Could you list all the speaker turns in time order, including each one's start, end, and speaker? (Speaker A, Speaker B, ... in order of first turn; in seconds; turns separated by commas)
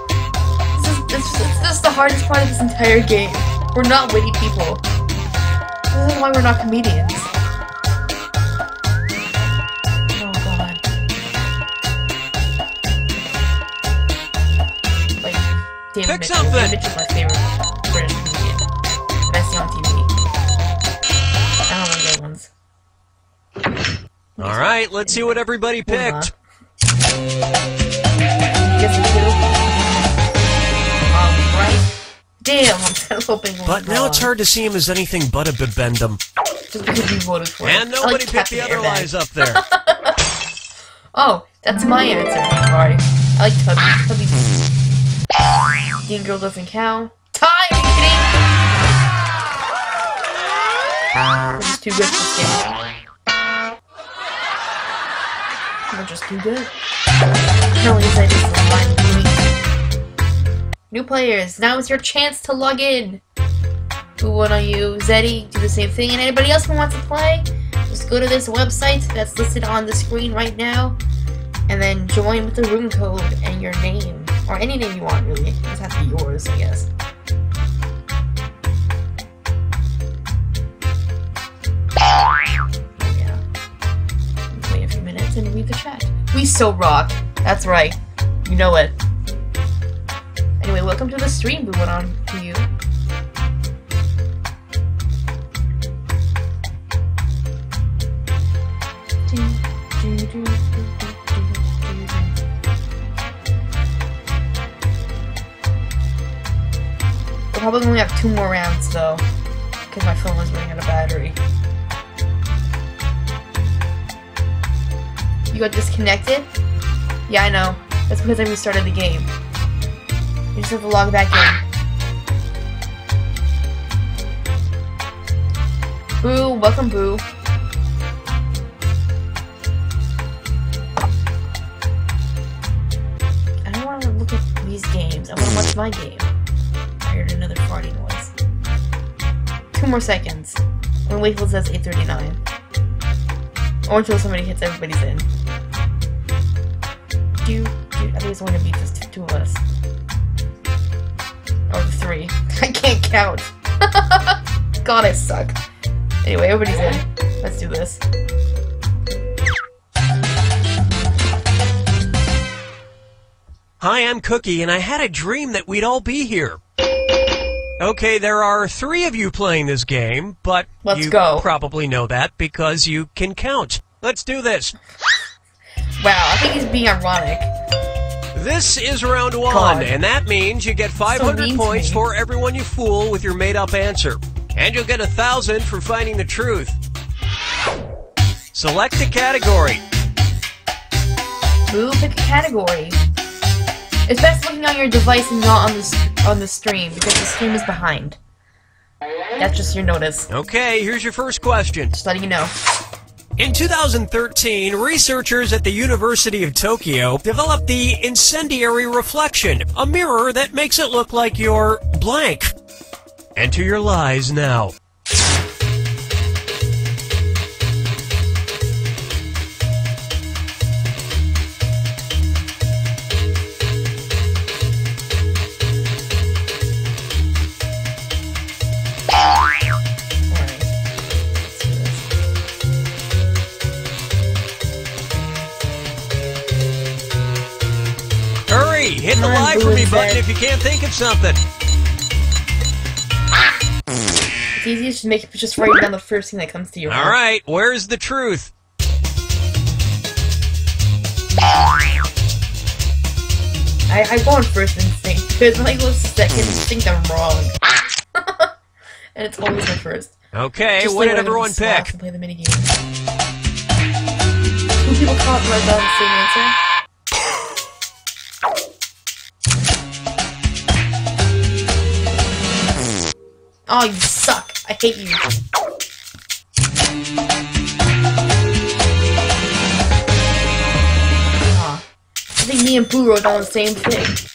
Speaker A: 0.8-4.8, Speaker A: 5.9-7.3, Speaker A: 10.2-10.8, Speaker A: 15.2-18.6, Speaker B: 16.0-16.8, Speaker A: 19.3-20.1, Speaker A: 21.7-22.5, Speaker A: 24.4-26.3, Speaker B: 24.4-26.3, Speaker A: 28.6-29.4, Speaker A: 31.1-34.3, Speaker B: 33.7-36.2, Speaker A: 36.7-40.2, Speaker B: 37.6-39.6, Speaker A: 41.1-44.5, Speaker A: 46.0-48.3, Speaker A: 51.6-52.7, Speaker A: 55.9-56.7, Speaker A: 57.7-59.6, Speaker A: 60.9-63.2, Speaker A: 64.2-71.0, Speaker A: 71.7-76.9, Speaker A: 83.0-83.4, Speaker A: 84.5-89.0, Speaker A: 90.6-92.7, Speaker A: 99.3-102.3, Speaker A: 107.5-109.2, Speaker A: 109.9-111.4, Speaker A: 115.5-116.5, Speaker A: 117.3-119.3, Speaker A: 120.5-121.6, Speaker A: 126.2-127.2, Speaker A: 133.7-136.3, Speaker A: 137.0-138.3, Speaker A: 139.7-142.4, Speaker A: 143.9-145.3, Speaker A: 147.4-149.6, Speaker A: 151.7-155.6, Speaker A: 156.2-158.0, Speaker B: 163.8-166.6, Speaker B: 167.8-174.8, Speaker A: 170.8-171.5, Speaker A: 176.0-177.5, Speaker B: 178.3-186.8, Speaker A: 179.5-179.9, Speaker A: 181.1-182.1, Speaker B: 188.5-189.8, Speaker A: 191.7-193.0, Speaker A: 194.1-198.2, Speaker A: 199.4-200.3, Speaker B: 200.3-201.9, Speaker A: 201.9-202.5, Speaker B: 203.4-212.5, Speaker B: 213.4-214.8, Speaker A: 230.3-230.7, Speaker A: 231.4-232.1, Speaker B: 238.5-241.4, Speaker A: 239.1-240.2, Speaker A: 244.6-247.2, Speaker B: 246.9-248.5, Speaker A: 253.9-257.6, Speaker A: 258.1-258.5, Speaker A: 259.1-260.1, Speaker B: 260.3-261.9, Speaker A: 260.8-262.8, Speaker A: 264.8-266.6, Speaker A: 273.7-275.3, Speaker A: 281.5-281.8, Speaker A: 282.4-284.2